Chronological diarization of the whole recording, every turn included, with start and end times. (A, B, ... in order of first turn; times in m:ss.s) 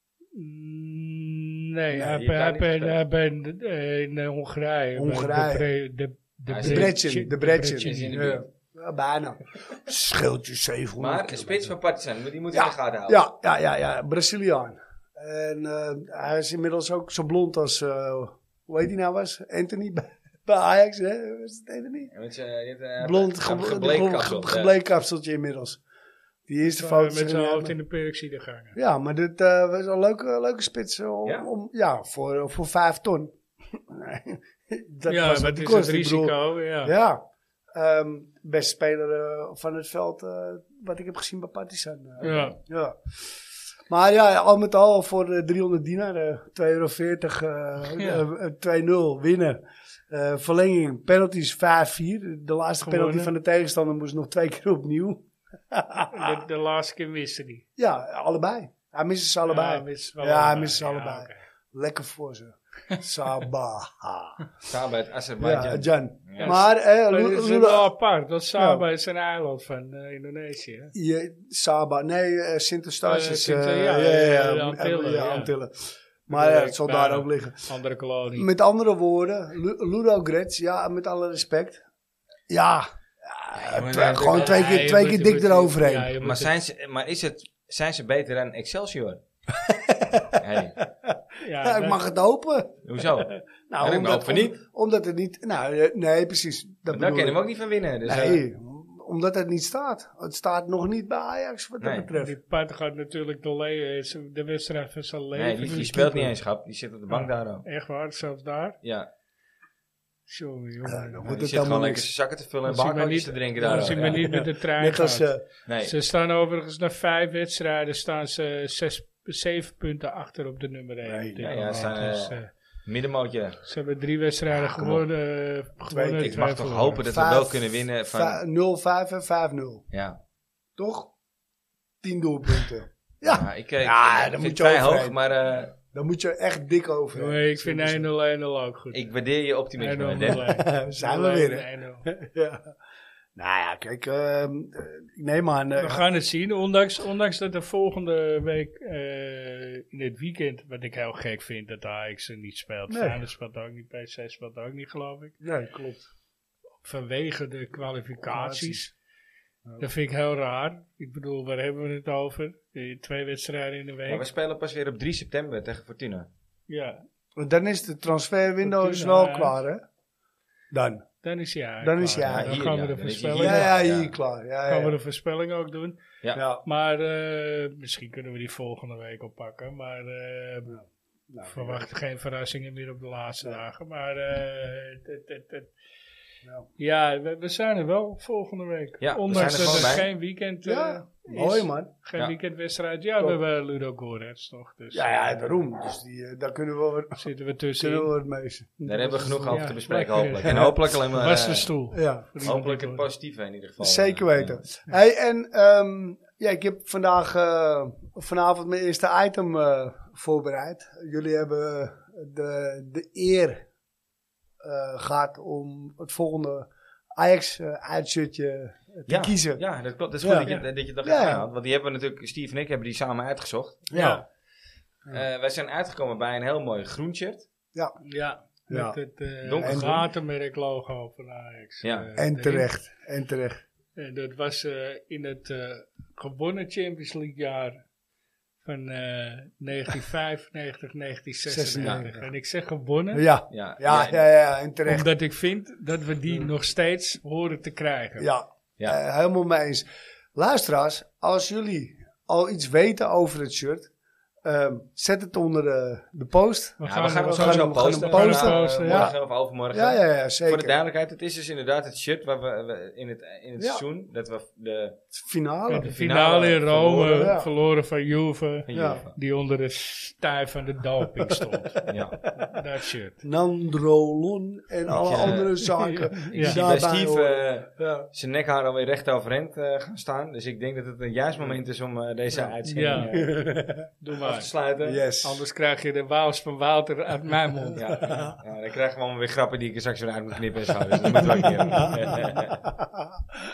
0:00.3-0:08.4 A
0:02.0-0:03.0 B
0:05.0-0:05.6 C
0:06.5-0:07.0 B
0:06.6-0:11.7 C
0:07.8-0:08.4 B
0:11.0-0:13.2 B
0:12.5-0:22.1 C
0:22.1-0:24.7 B
0:23.0-0:25.8 C
0:26.5-0:27.7 C
0:26.8-0:28.8 A
0:28.7-0:43.0 C
0:35.1-0:36.9 A
0:42.2-0:42.6 A
0:43.9-0:56.3 C
0:47.9-0:48.2 A
0:52.8-0:53.3 A
0:56.1-0:57.6 A
0:57.8-1:04.5 C
0:59.4-1:01.4 A
1:04.7-1:06.6 B
1:05.4-1:07.9 C
1:06.4-1:10.9 A
1:08.6-1:08.8 C
1:10.9-1:17.7 C
1:13.0-1:15.5 A
1:16.3-1:18.5 A
1:18.4-1:21.8 C
1:22.5-1:26.1 C
1:23.5-1:25.0 B
1:24.3-1:26.5 A
1:26.2-1:29.2 B
1:29.5-1:37.4 C
1:30.4-1:30.8 B
1:31.4-1:32.0 A
1:32.8-1:34.6 B
1:36.9-1:38.4 B
1:38.0-1:42.4 C
1:41.8-1:42.1 B
1:42.2-1:46.0 A
1:45.3-1:47.6 B
1:45.7-1:46.3 C
1:47.1-1:48.8 A
1:48.8-1:49.1 B
1:50.3-1:51.3 A
1:50.8-1:52.1 C
1:51.3-1:54.4 B
1:52.6-1:55.3 A
1:53.6-1:55.4 C
1:55.6-1:55.9 B
1:55.8-2:02.5 A
2:01.0-2:02.0 C
2:01.4-2:03.6 B
2:03.6-2:07.0 A
2:04.6-2:05.0 B
2:05.9-2:06.4 C
2:06.2-2:08.4 B
2:07.0-2:09.8 C
2:09.9-2:10.2 B
2:10.8-2:11.1 C
2:12.0-2:15.1 C
2:13.2-2:15.7 B
2:15.9-2:18.0 C
2:17.1-2:19.0 A
2:18.9-2:20.5 B
2:19.8-2:22.1 A
2:20.4-2:22.7 C
2:23.4-2:26.0 C
2:25.8-2:35.4 A
2:32.9-2:33.2 C
2:35.4-2:36.1 C
2:36.8-2:38.9 A
2:38.3-2:38.9 C
2:39.8-2:44.2 A
2:44.0-2:46.3 B
2:46.7-2:47.0 A
2:47.4-2:49.8 C
2:48.6-2:49.6 A
2:50.7-2:51.0 C
2:51.2-2:53.7 A
2:51.8-2:52.5 C
2:52.2-2:54.1 B
2:53.3-2:55.0 C
2:54.7-2:56.0 A
2:56.3-2:56.6 C
2:56.6-3:00.8 A
3:00.7-3:01.9 C
3:01.4-3:05.7 A
3:06.8-3:15.5 A
3:09.0-3:10.1 B
3:09.3-3:10.0 C
3:10.6-3:11.9 C
3:14.9-3:17.2 C
3:17.2-3:18.1 A
3:17.8-3:19.6 C
3:18.9-3:21.7 B
3:19.5-3:23.0 A
3:20.5-3:20.7 C
3:21.9-3:22.3 C
3:22.4-3:24.6 B
3:23.8-3:33.6 C
3:34.6-3:39.6 C
3:39.1-3:43.9 B
3:40.2-3:40.5 C
3:41.0-3:41.4 C
3:43.9-3:44.2 C
3:43.9-3:44.2 A
3:45.1-3:47.5 B
3:48.0-3:52.7 A
3:48.7-3:49.0 C
3:49.4-3:50.0 B
3:49.6-3:50.0 C
3:51.8-3:52.1 B
3:52.2-3:53.6 C
3:54.0-3:57.8 A
3:58.6-4:03.3 A
4:01.5-4:02.3 C
4:01.8-4:02.1 B
4:03.1-4:05.1 C
4:03.5-4:04.2 B
4:04.9-4:08.3 A
4:08.2-4:13.9 C
4:14.4-4:19.2 C
4:16.8-4:19.1 A
4:16.8-4:25.0 B
4:19.7-4:20.7 C
4:25.1-4:25.9 C
4:25.7-4:31.8 A
4:25.9-4:27.3 B
4:27.0-4:27.5 C
4:28.7-4:29.2 B
4:28.7-4:29.0 C
4:31.1-4:32.3 C
4:31.9-4:32.2 B
4:32.3-4:33.2 A
4:33.2-4:38.1 C
4:34.9-4:35.6 B
4:35.8-4:36.6 A
4:36.3-4:43.4 B
4:42.6-4:43.1 A
4:43.0-4:43.9 C
4:44.0-4:44.5 A
4:44.2-4:45.0 B
4:44.8-4:45.4 C
4:45.2-4:48.0 A
4:47.6-4:48.3 C
4:47.8-4:52.7 B
4:51.7-4:53.2 C